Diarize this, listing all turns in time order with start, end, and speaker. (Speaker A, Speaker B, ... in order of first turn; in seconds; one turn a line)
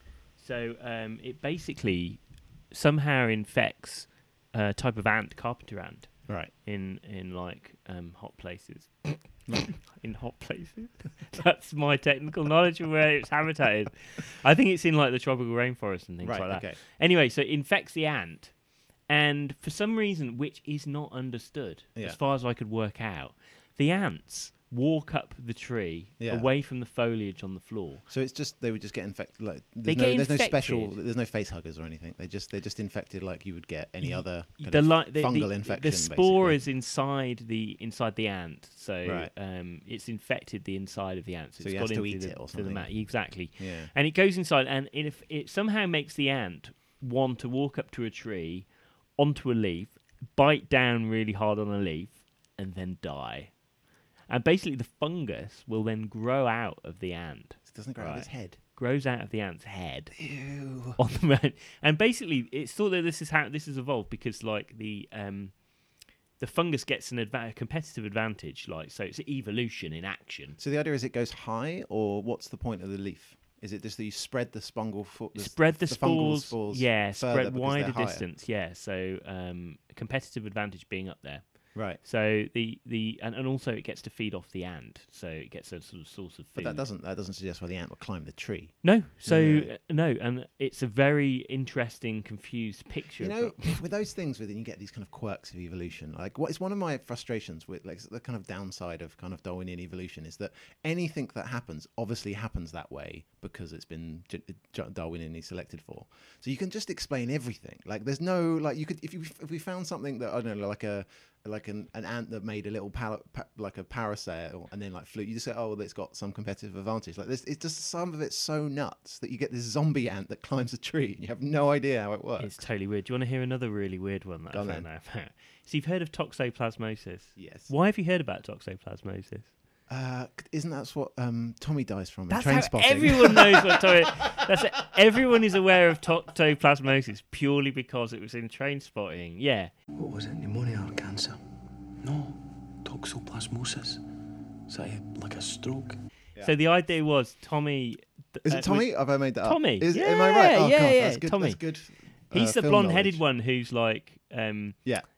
Speaker A: 0.4-18.5
Speaker B: 16.2-16.8
Speaker A: 19.1-28.0
Speaker B: 26.2-26.5
Speaker B: 28.1-36.6
Speaker A: 29.9-31.0
Speaker A: 34.0-53.5
Speaker B: 39.0-39.3
Speaker B: 41.6-43.9
Speaker A: 54.3-60.1
Speaker B: 57.6-58.6
Speaker B: 60.2-61.0
Speaker A: 61.0-65.5
Speaker A: 66.4-70.6
Speaker B: 70.6-78.2
Speaker A: 75.3-86.8
Speaker B: 86.5-89.7
Speaker A: 88.8-93.8
Speaker B: 93.2-122.6
Speaker A: 122.4-129.5
Speaker B: 124.5-124.8
Speaker B: 127.3-127.7
Speaker B: 129.9-134.4
Speaker A: 132.3-139.7
Speaker C: 140.0-141.4
Speaker C: 142.0-144.0
Speaker C: 144.7-146.0
Speaker A: 146.4-148.9
Speaker B: 148.4-153.2
Speaker A: 149.4-151.6
Speaker A: 152.3-154.8